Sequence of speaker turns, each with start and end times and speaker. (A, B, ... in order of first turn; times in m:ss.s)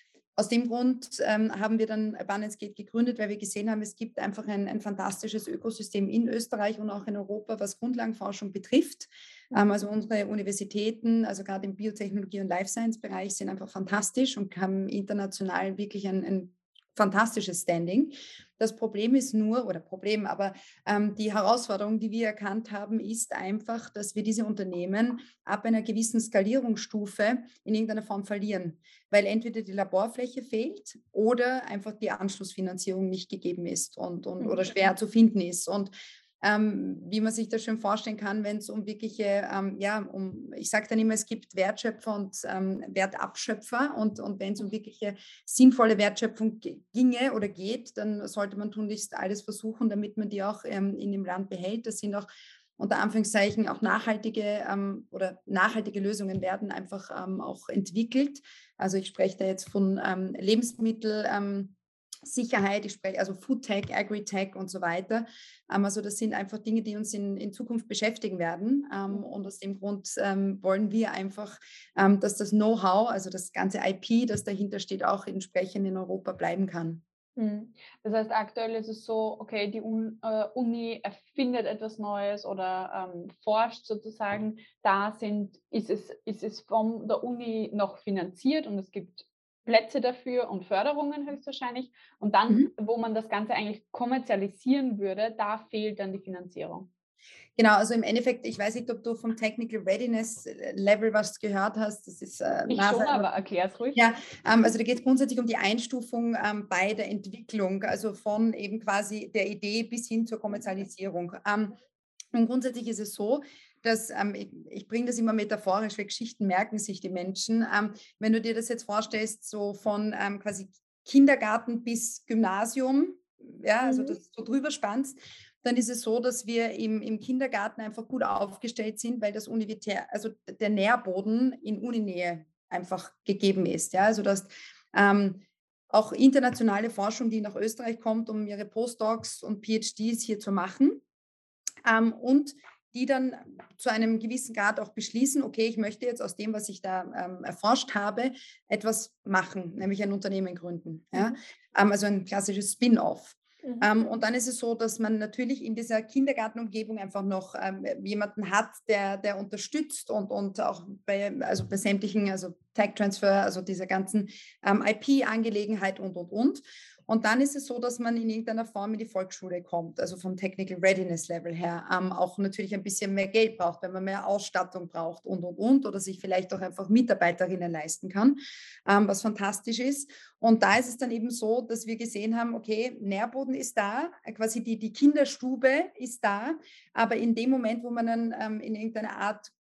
0:00.4-1:17.0 A
0:34.4-0:34.7 B
1:17.4-1:36.9 B
1:37.6-1:43.2 A
1:42.7-1:44.0 B
1:43.9-1:51.8 A
1:52.3-2:21.0 A
2:03.8-2:04.2 B
2:21.8-3:09.5 A
2:33.6-2:33.9 B